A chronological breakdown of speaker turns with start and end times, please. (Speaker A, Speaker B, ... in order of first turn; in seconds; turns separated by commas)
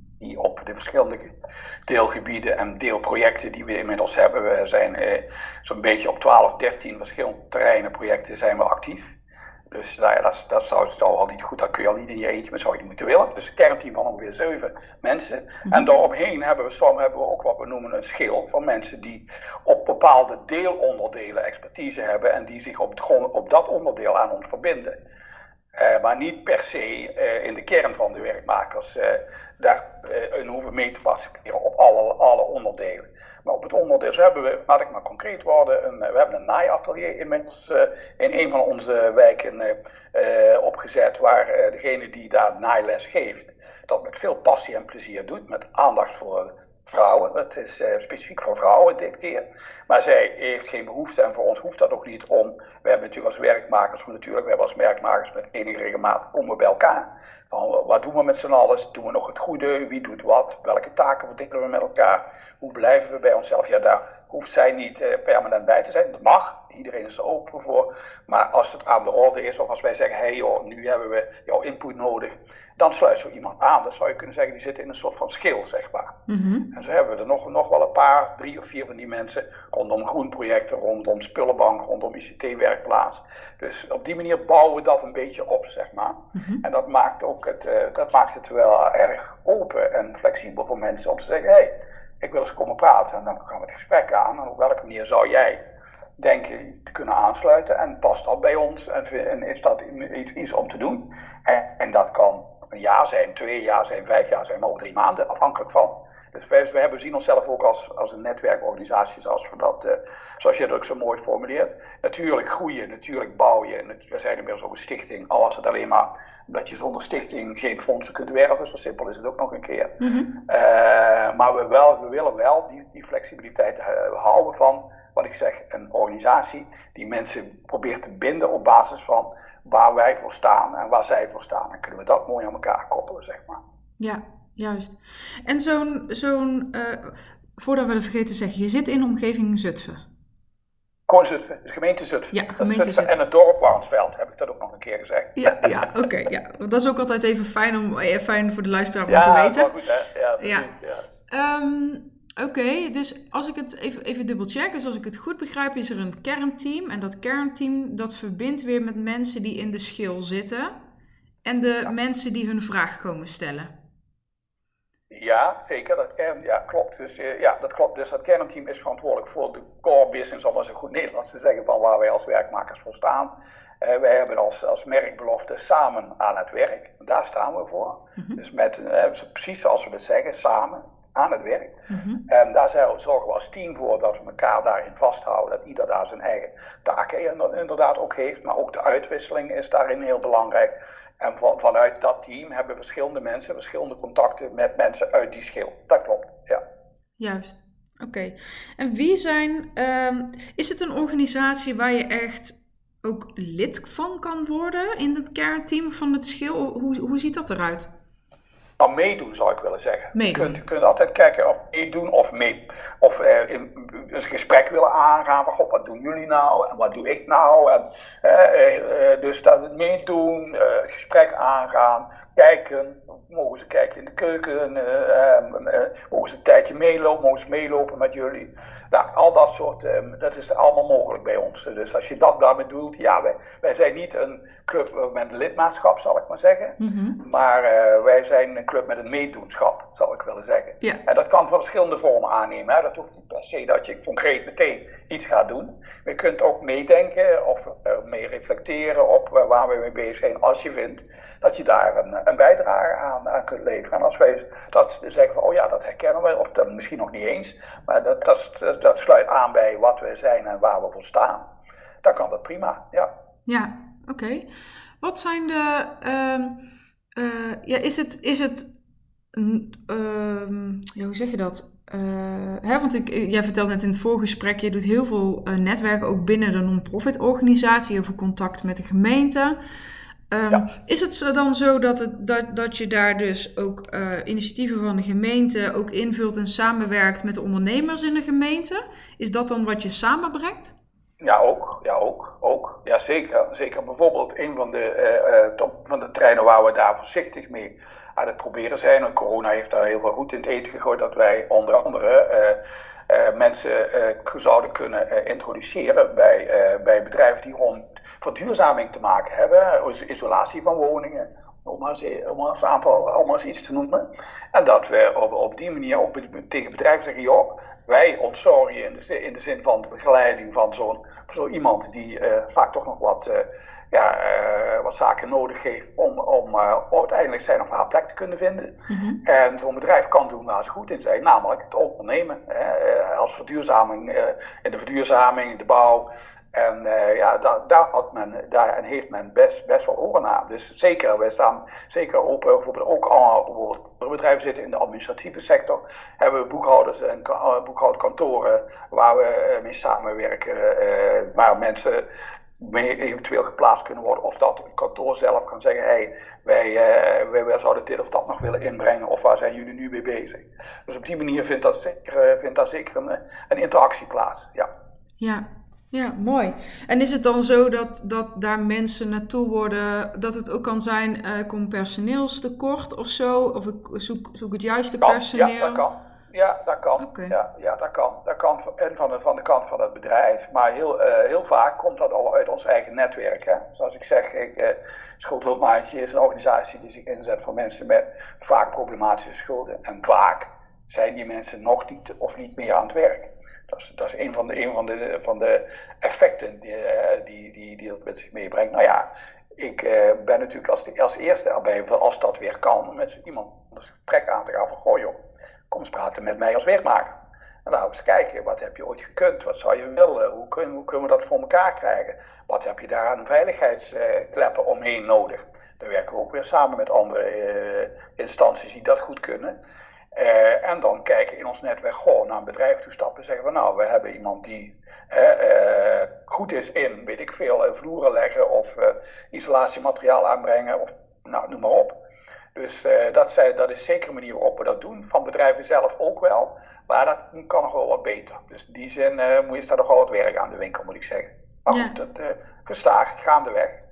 Speaker A: 0.2-1.3, Speaker A: 1.9-9.2, Speaker A: 9.7-24.9, Speaker A: 25.8-76.2, Speaker B: 76.3-76.7, Speaker A: 76.7-95.6, Speaker B: 86.3-86.6, Speaker A: 96.2-133.6, Speaker B: 120.0-120.3, Speaker B: 134.0-140.0, Speaker A: 141.1-145.9, Speaker B: 142.3-143.1, Speaker B: 145.3-149.7, Speaker A: 149.1-151.1, Speaker B: 150.4-150.7, Speaker B: 151.2-160.7, Speaker B: 161.4-163.7, Speaker A: 165.1-173.3, Speaker A: 173.8-196.6, Speaker B: 181.9-182.2, Speaker B: 197.2-207.9, Speaker A: 208.8-261.4, Speaker B: 210.1-210.6, Speaker B: 236.8-237.2, Speaker A: 262.0-263.1, Speaker B: 263.4-264.5, Speaker B: 265.0-266.6, Speaker B: 267.1-268.7, Speaker B: 269.3-279.6, Speaker B: 280.3-290.7, Speaker A: 291.2-302.6, Speaker A: 303.1-352.0, Speaker B: 328.9-329.2, Speaker A: 352.6-364.7, Speaker B: 365.2-375.8, Speaker A: 375.0-405.1, Speaker B: 377.0-377.3, Speaker A: 405.7-407.1, Speaker A: 407.6-419.6, Speaker A: 420.1-432.0, Speaker A: 432.5-443.8, Speaker B: 441.7-441.9